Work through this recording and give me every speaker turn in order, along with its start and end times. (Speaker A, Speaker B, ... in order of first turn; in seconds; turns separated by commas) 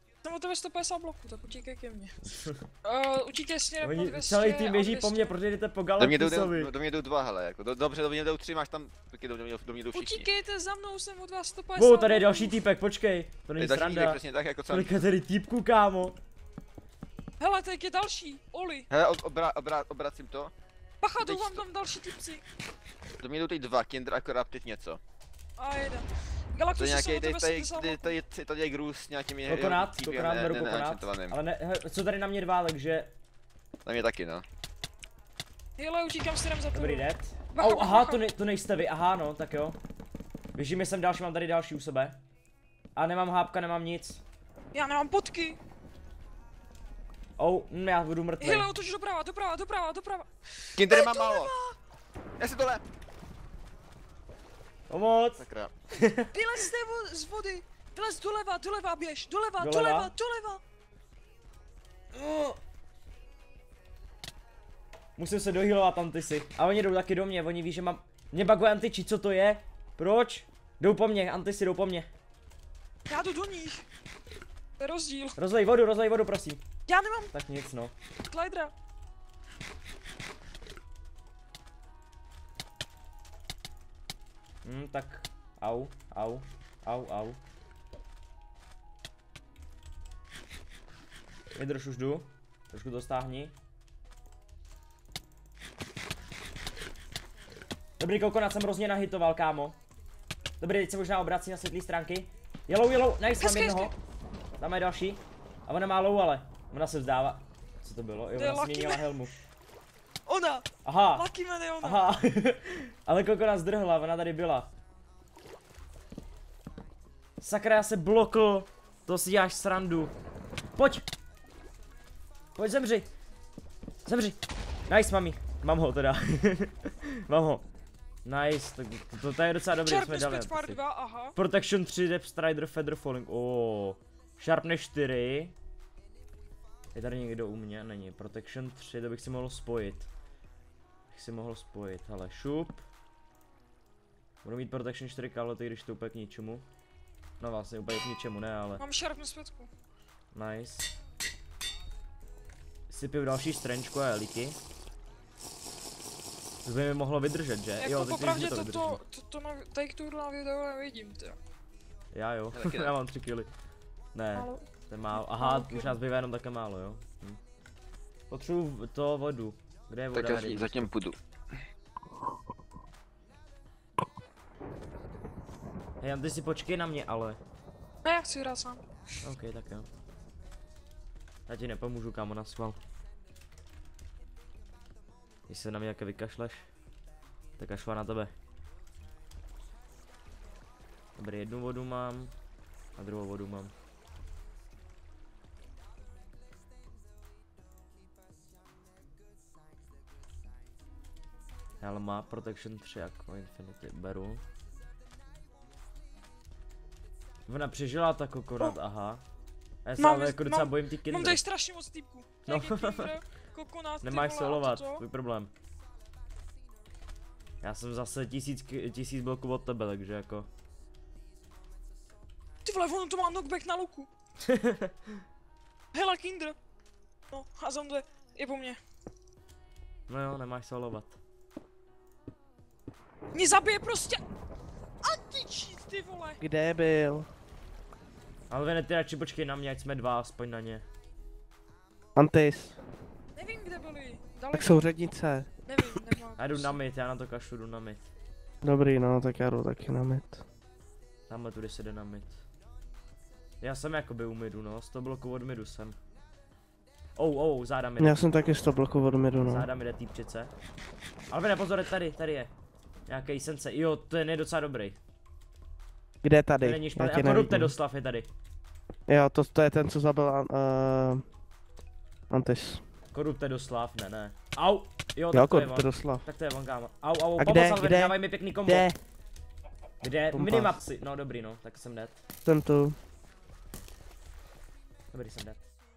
Speaker A: 0.2-5.4, Speaker B: 3.8-6.7, Speaker C: 6.0-10.3, Speaker A: 9.9-12.6, Speaker B: 11.8-16.2, Speaker C: 13.6-15.0, Speaker A: 17.4-18.9, Speaker C: 18.9-20.5, Speaker A: 21.0-22.4, Speaker C: 21.2-21.6, Speaker C: 23.2-25.0, Speaker A: 25.6-28.2, Speaker C: 26.8-31.4, Speaker B: 29.5-33.1, Speaker C: 33.9-34.5, Speaker A: 35.8-38.2, Speaker B: 36.7-39.8, Speaker B: 40.5-42.2, Speaker B: 43.0-44.2, Speaker A: 44.7-45.6, Speaker B: 47.4-48.7, Speaker A: 48.4-51.8, Speaker C: 50.8-51.5, Speaker C: 52.4-52.8, Speaker B: 54.9-56.3, Speaker C: 55.4-55.7, Speaker A: 56.3-60.6, Speaker B: 59.6-60.1, Speaker B: 62.1-62.6, Speaker B: 65.2-72.1, Speaker A: 73.1-73.9, Speaker A: 74.8-75.4, Speaker B: 75.4-76.6, Speaker A: 76.9-77.3, Speaker B: 77.3-77.9, Speaker A: 78.3-78.7, Speaker B: 84.6-87.4, Speaker B: 91.6-93.5, Speaker B: 98.0-99.8, Speaker B: 100.6-104.0, Speaker A: 103.4-104.0, Speaker B: 104.6-109.3, Speaker A: 108.3-109.3, Speaker A: 110.3-112.0, Speaker B: 110.8-111.3, Speaker B: 111.8-114.7, Speaker B: 117.4-120.1, Speaker B: 120.8-121.0, Speaker B: 122.6-123.1, Speaker B: 124.0-127.6, Speaker B: 128.2-130.8, Speaker A: 129.8-131.3, Speaker B: 131.3-135.6, Speaker B: 136.9-140.1, Speaker B: 141.1-142.8, Speaker B: 144.4-146.7, Speaker B: 147.4-148.8, Speaker A: 148.8-149.7, Speaker B: 150.3-150.9, Speaker B: 152.9-154.6, Speaker B: 156.6-159.0, Speaker A: 157.8-161.4, Speaker B: 162.1-163.5, Speaker C: 162.5-162.9, Speaker B: 164.1-167.4, Speaker A: 164.3-166.0, Speaker B: 168.3-170.9, Speaker C: 170.1-171.2, Speaker B: 176.0-177.4, Speaker A: 178.0-178.8, Speaker B: 179.2-179.9, Speaker B: 181.5-182.8, Speaker B: 185.5-186.7, Speaker B: 187.6-188.3, Speaker B: 191.2-192.3, Speaker B: 193.0-193.7, Speaker B: 201.8-204.4, Speaker B: 207.5-209.2, Speaker B: 209.8-211.4, Speaker A: 210.0-215.0, Speaker B: 212.5-213.1, Speaker B: 214.0-215.5, Speaker B: 217.6-220.5, Speaker A: 222.7-224.1, Speaker B: 224.5-225.0, Speaker A: 225.9-226.6, Speaker A: 227.3-228.8, Speaker B: 230.1-231.2, Speaker A: 233.3-234.2, Speaker A: 235.0-236.4, Speaker D: 236.4-237.3, Speaker B: 238.5-240.8, Speaker D: 242.2-242.8, Speaker A: 243.4-245.0, Speaker D: 244.5-245.9, Speaker A: 245.6-246.8, Speaker B: 246.4-248.1, Speaker D: 248.6-250.4, Speaker B: 251.3-252.4, Speaker B: 253.6-256.0, Speaker B: 257.2-258.2, Speaker D: 258.0-259.7, Speaker B: 259.4-260.5, Speaker B: 261.3-262.5, Speaker B: 263.1-265.0, Speaker D: 266.2-267.7, Speaker B: 266.6-268.3, Speaker D: 269.1-271.2, Speaker D: 272.3-272.8, Speaker B: 273.1-278.9, Speaker D: 275.3-276.3, Speaker D: 277.4-279.0, Speaker B: 280.0-282.2, Speaker D: 280.3-280.8, Speaker D: 282.4-283.0, Speaker B: 285.1-285.6